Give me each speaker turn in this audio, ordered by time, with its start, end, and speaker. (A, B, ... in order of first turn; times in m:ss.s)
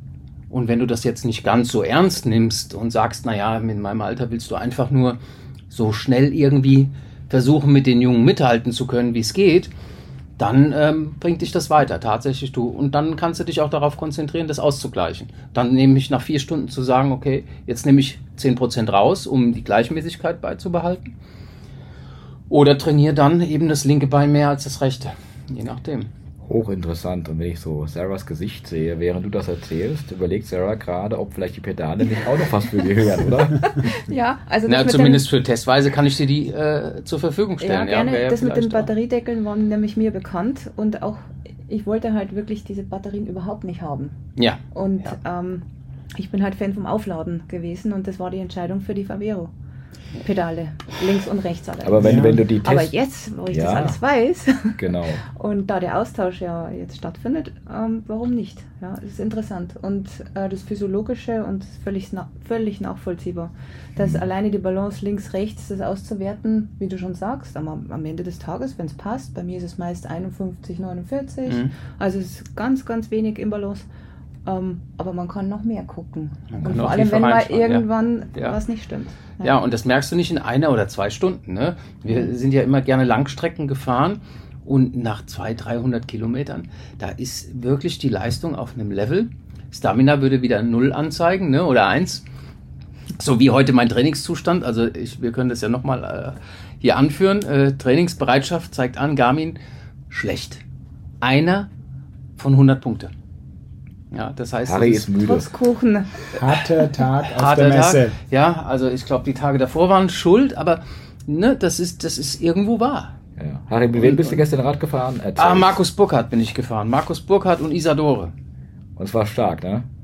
0:00.5-0:05.2 A
0:05.7-0:09.7 A
0:10.4-0:21.1 A
0:22.5-0:26.1 A
0:26.5-0:33.9 B
0:33.8-0:35.2 C
0:34.7-0:38.9 A
0:37.6-0:44.2 C
0:44.4-0:45.1 A
0:44.7-0:45.6 C
0:46.2-0:49.5 C
0:50.2-1:13.9 C
0:51.8-0:52.9 B
0:52.0-0:52.4 D
0:53.5-0:54.0 B
0:54.8-0:55.2 B
1:04.0-1:04.3 B
1:11.5-1:11.7 A
1:14.5-1:19.6 C
1:16.6-1:18.6 A
1:19.4-1:32.2 A
1:33.2-1:39.6 A
1:40.1-1:40.6 A
1:41.2-1:41.7 A
1:42.4-1:43.1 A
1:44.1-1:45.1 A
1:44.7-1:45.5 B
1:45.2-1:46.1 C
1:46.3-1:48.2 D
1:47.3-1:53.2 A
1:53.4-1:55.8 B
1:53.9-1:54.4 A
1:55.4-1:58.3 A
1:59.0-1:59.9 B